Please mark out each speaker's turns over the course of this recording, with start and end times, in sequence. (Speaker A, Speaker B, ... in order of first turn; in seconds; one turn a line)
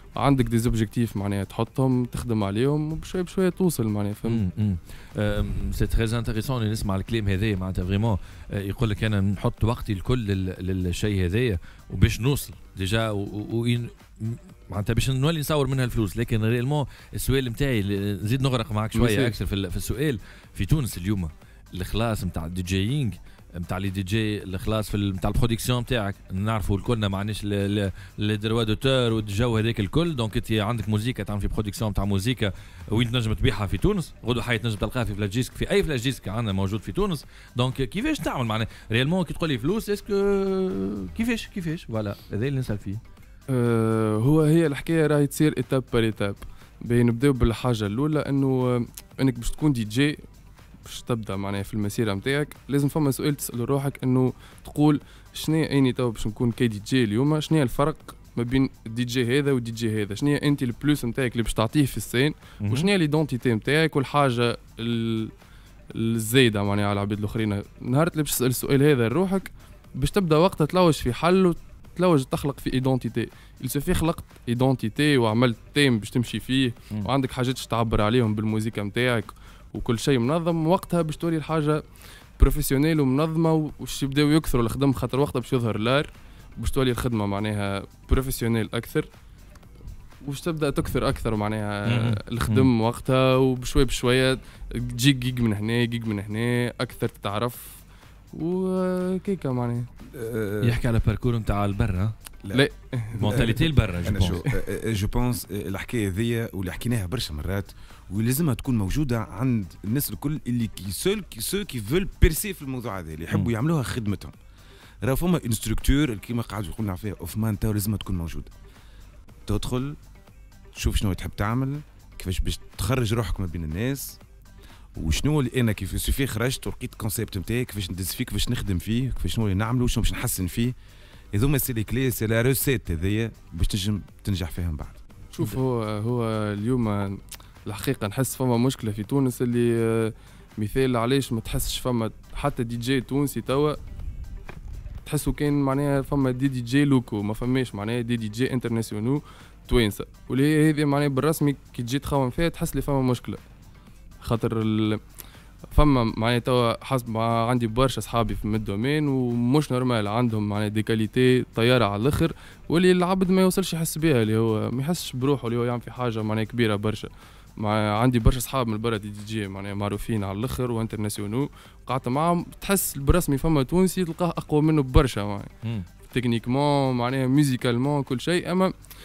Speaker A: 0.2-4.4
Speaker B: 4.2-43.0
Speaker A: 18.9-19.4
Speaker A: 43.5-50.2
Speaker A: 50.9-65.3
Speaker B: 62.6-62.9
Speaker A: 65.9-81.8
Speaker A: 82.4-89.1
Speaker A: 90.2-97.8
Speaker B: 91.9-92.7
Speaker A: 98.3-99.9
Speaker C: 100.1-100.8
Speaker B: 100.6-102.1
Speaker A: 102.5-103.7
Speaker B: 103.2-104.4
Speaker C: 103.2-114.3
Speaker A: 104.2-104.6
Speaker C: 115.0-118.5
Speaker C: 119.5-120.0
Speaker C: 120.8-124.2
Speaker C: 125.0-130.7
Speaker C: 131.3-135.0
Speaker A: 135.3-143.8
Speaker A: 145.1-153.4
Speaker A: 154.2-155.0
Speaker A: 155.7-175.5
Speaker A: 176.1-178.7